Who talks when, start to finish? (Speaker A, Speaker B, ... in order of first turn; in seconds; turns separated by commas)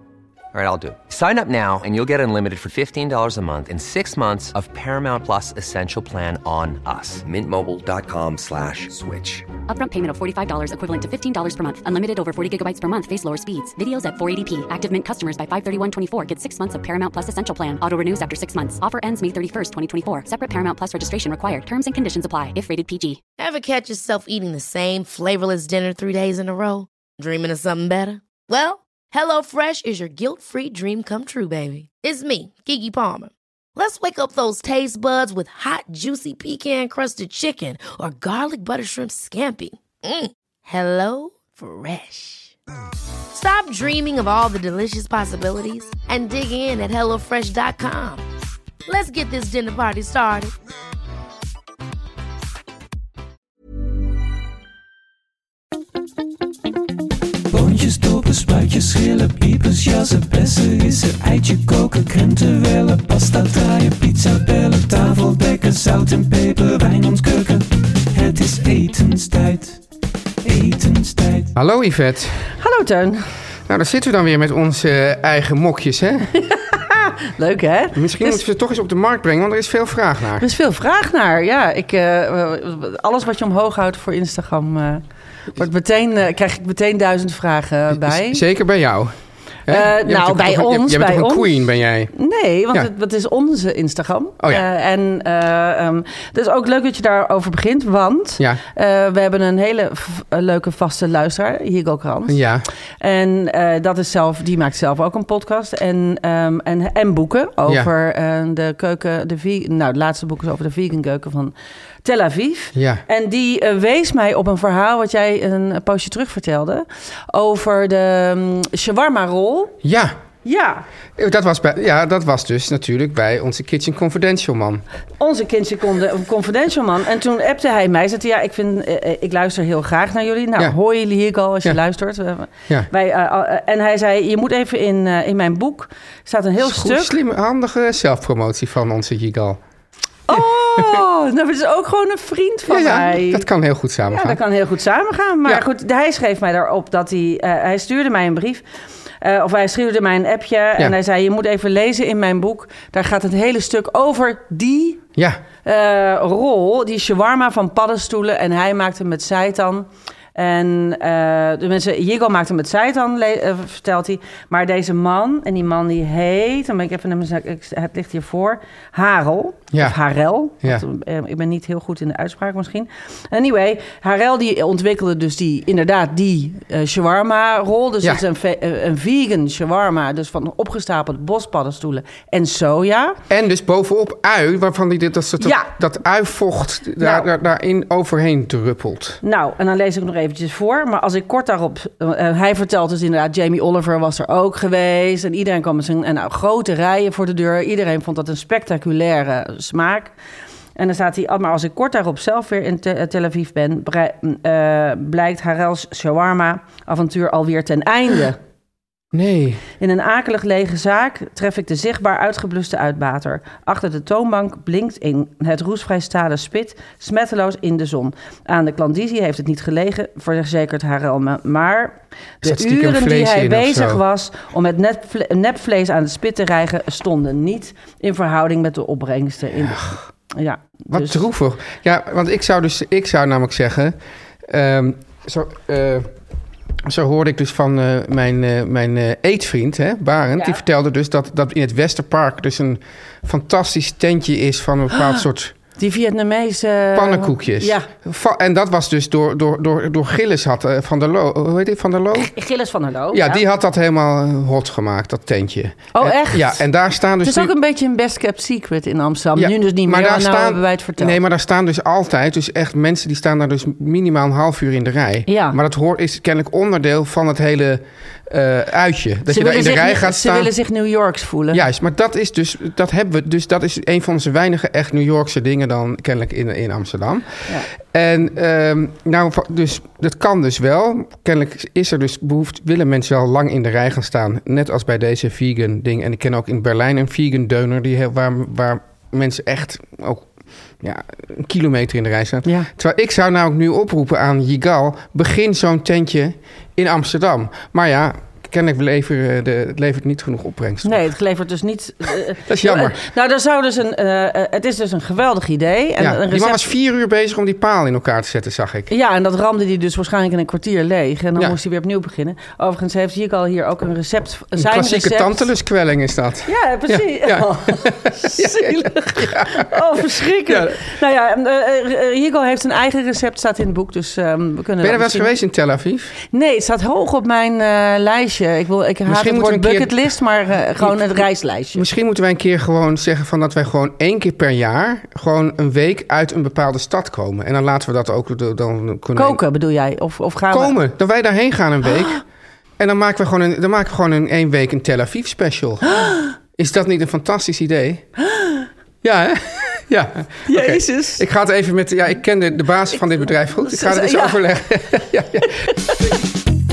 Speaker A: 0.5-9.5, Speaker B: 9.7-23.2, Speaker C: 23.4-42.5, Speaker C: 43.3-48.2, Speaker C: 48.9-50.5, Speaker D: 57.5-69.8, Speaker D: 70.4-71.5, Speaker E: 71.5-72.4, Speaker F: 72.5-73.2, Speaker E: 73.7-76.3, Speaker F: 76.3-78.4, Speaker E: 77.9-80.5, Speaker F: 80.4-85.0, Speaker F: 85.5-88.4, Speaker E: 88.0-89.1, Speaker E: 89.7-92.1, Speaker F: 89.7-91.6, Speaker F: 92.1-102.4, Speaker E: 102.3-102.7, Speaker F: 103.0-119.8, Speaker E: 112.7-113.0, Speaker E: 119.8-120.2, Speaker F: 120.4-120.8, Speaker E: 121.2-124.8, Speaker F: 125.2-137.2, Speaker E: 136.6-139.6, Speaker F: 140.3-143.5, Speaker E: 140.3-141.0, Speaker E: 142.7-144.4, Speaker F: 144.1-148.6, Speaker F: 149.2-155.0, Speaker E: 155.2-155.4, Speaker F: 155.6-183.2, Speaker E: 169.7-170.0, Speaker E: 183.3-189.2, Speaker F: 185.4-185.7, Speaker F: 187.0-187.3, Speaker F: 189.2-200.2, Speaker F: 200.8-208.4, Speaker E: 209.1-209.6, Speaker F: 209.8-231.2, Speaker E: 222.4-224.0, Speaker E: 229.6-229.9, Speaker E: 230.9-236.1, Speaker E: 236.8-245.6, Speaker F: 245.8-247.9, Speaker E: 246.9-252.3, Speaker F: 252.2-253.4, Speaker E: 253.1-257.5, Speaker F: 255.9-256.6, Speaker F: 257.2-261.2, Speaker E: 259.4-270.5, Speaker F: 265.3-265.6, Speaker F: 269.3-271.6, Speaker E: 271.5-290.3, Speaker E: 290.8-301.0, Speaker F: 300.8-306.7, Speaker E: 302.4-303.0, Speaker E: 306.0-308.9, Speaker F: 308.9-315.5, Speaker E: 314.6-320.9, Speaker F: 316.5-325.4, Speaker E: 324.8-326.1, Speaker F: 326.3-331.9, Speaker E: 329.1-330.0, Speaker E: 330.8-339.4, Speaker F: 339.2-340.8, Speaker E: 340.5-342.2, Speaker E: 342.8-348.1, Speaker F: 345.9-346.3, Speaker F: 348.2-348.7, Speaker E: 349.0-355.7, Speaker F: 350.5-351.2, Speaker F: 353.6-354.4